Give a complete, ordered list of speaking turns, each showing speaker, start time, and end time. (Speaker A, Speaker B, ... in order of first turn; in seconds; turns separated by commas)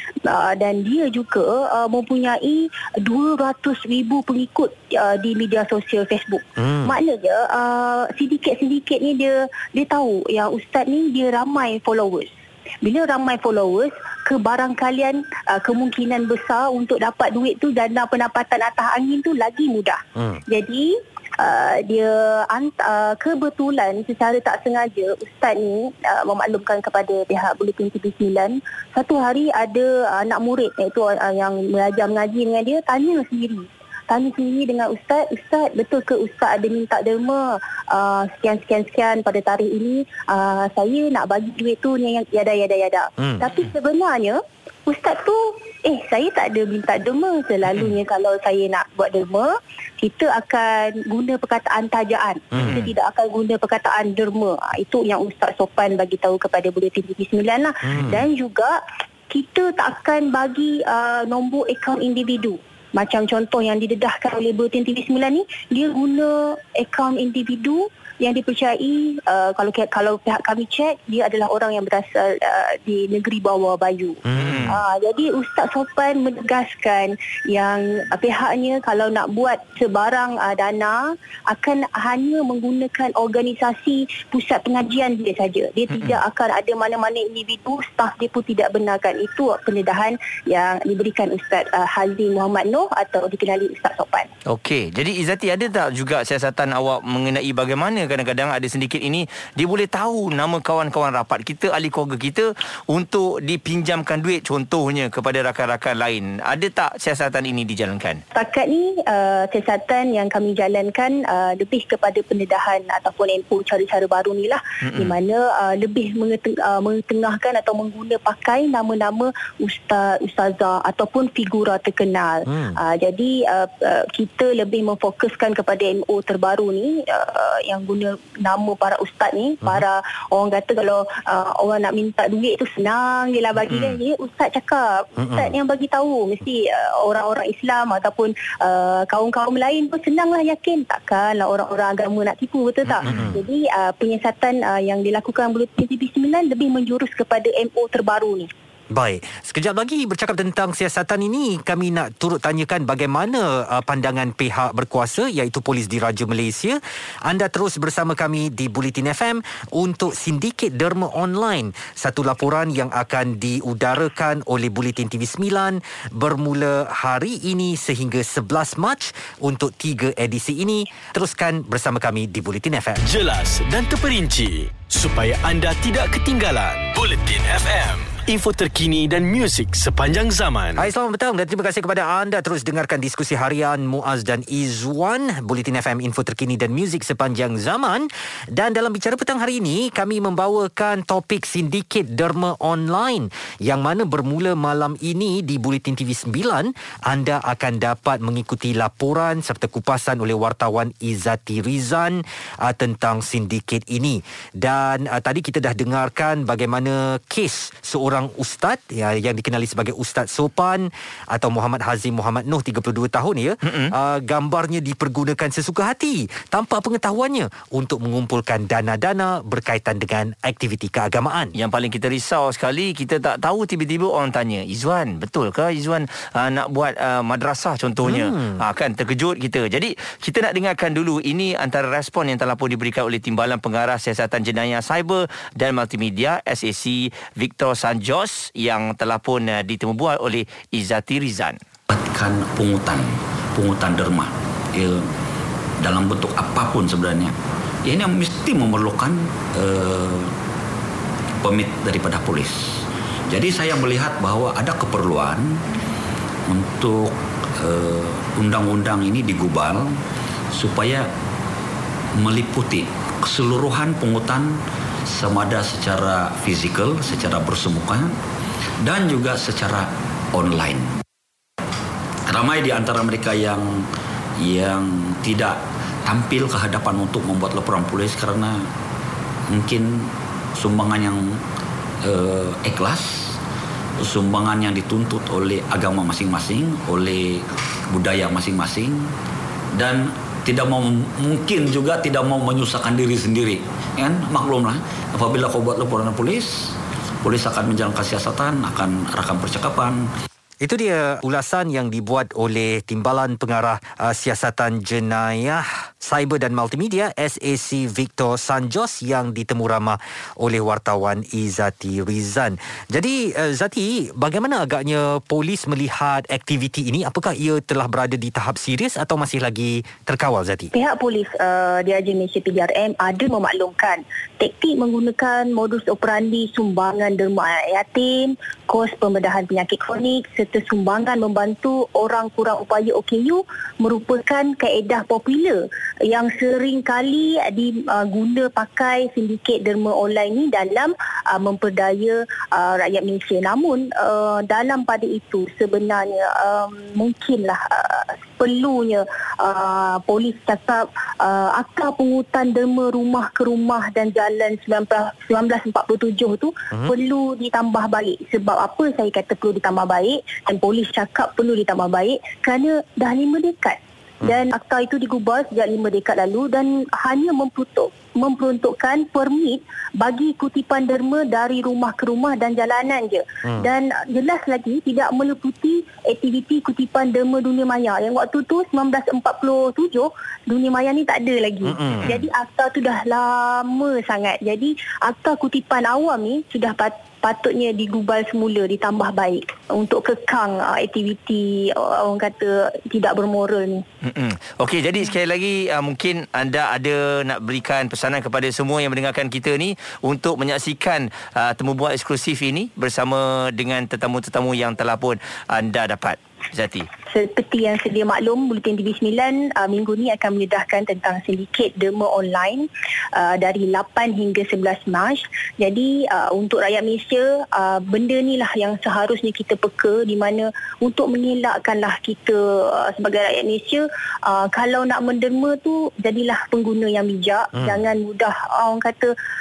Speaker A: 0.3-58.8, Speaker B: 6.6-6.9, Speaker B: 43.2-43.4, Speaker B: 52.5-52.9, Speaker C: 52.5-52.9, Speaker B: 57.9-58.2, Speaker A: 59.3-81.0, Speaker B: 74.3-74.8, Speaker C: 74.3-74.8, Speaker A: 81.5-94.3, Speaker C: 94.5-108.2, Speaker A: 108.3-148.5, Speaker C: 114.8-115.2, Speaker B: 122.5-122.8, Speaker B: 135.2-135.5, Speaker B: 143.0-143.4, Speaker B: 148.9-173.0, Speaker D: 173.0-180.9, Speaker B: 180.8-221.6, Speaker C: 213.7-213.9, Speaker C: 221.6-241.6, Speaker B: 228.0-228.6, Speaker E: 241.9-245.0, Speaker E: 245.8-250.3, Speaker E: 251.4-255.5, Speaker E: 256.5-259.9, Speaker E: 260.6-261.1, Speaker E: 262.2-264.6, Speaker E: 265.1-268.1, Speaker E: 268.8-270.9, Speaker E: 272.3-273.8, Speaker E: 274.4-278.6, Speaker E: 279.5-281.4, Speaker E: 282.1-283.4, Speaker E: 284.0-289.1, Speaker E: 289.8-300.1, Speaker B: 300.6-320.7, Speaker A: 320.7-393.8, Speaker B: 381.6-382.2, Speaker C: 394.0-406.9, Speaker A: 407.1-429.1